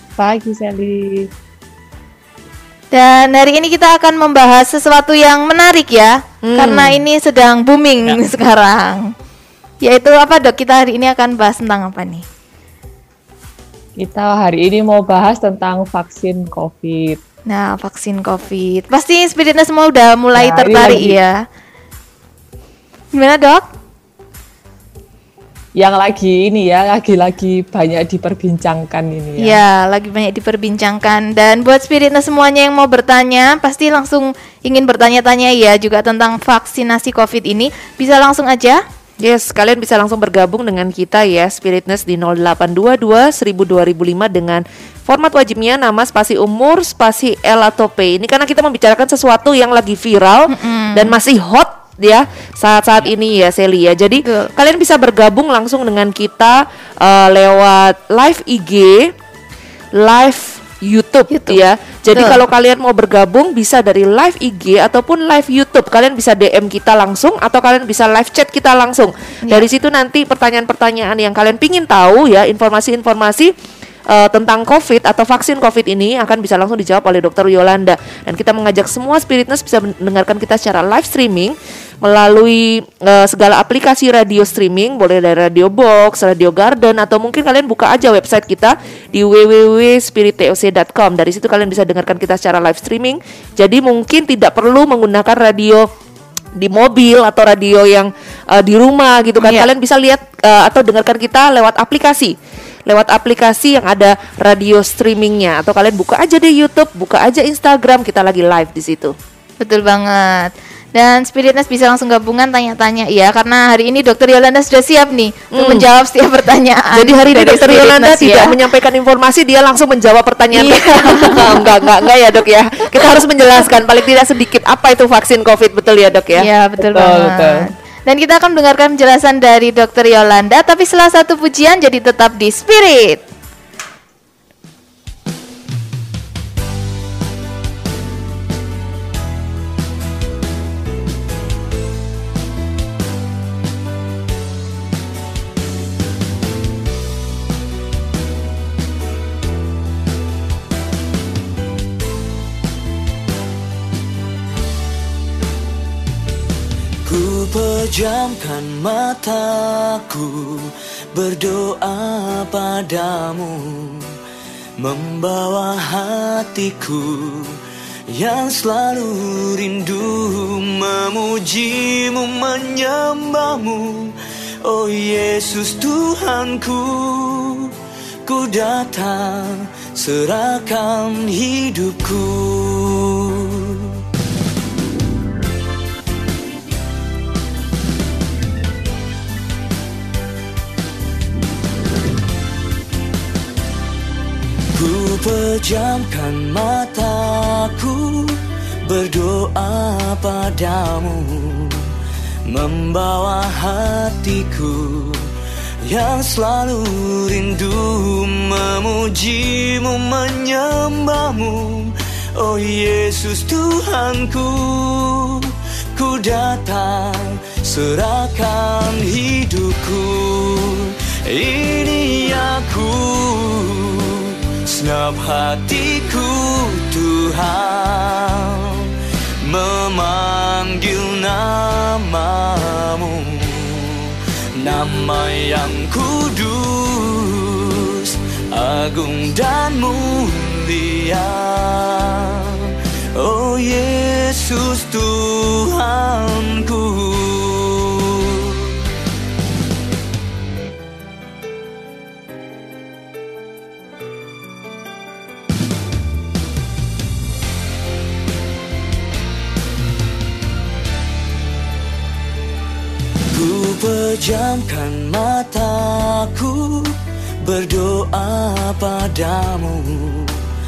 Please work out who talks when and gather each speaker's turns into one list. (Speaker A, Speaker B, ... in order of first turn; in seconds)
Speaker A: 0.2-1.3, 14.0-17.2, 20.4-21.2, 25.8-29.6, 126.8-127.7
Speaker B: 2.9-9.1, 9.8-12.2, 17.5-21.4, 23.1-23.7, 29.4-38.8, 50.5-51.1, 54.2-54.5, 61.3-61.6, 62.1-62.4, 99.4-99.7, 109.6-118.5, 120.6-121.7, 126.4-133.2
Speaker C: 6.4-7.0, 39.2-59.1, 60.0-73.5, 74.1-95.9, 96.6-102.3, 102.9-109.2, 115.5-115.8, 117.0-126.5
Speaker D: 157.1-164.1, 164.8-167.6, 168.1-177.7, 178.2-183.9, 194.7-201.9, 202.5-205.3, 205.9-228.9, 229.4-248.7, 263.3-270.4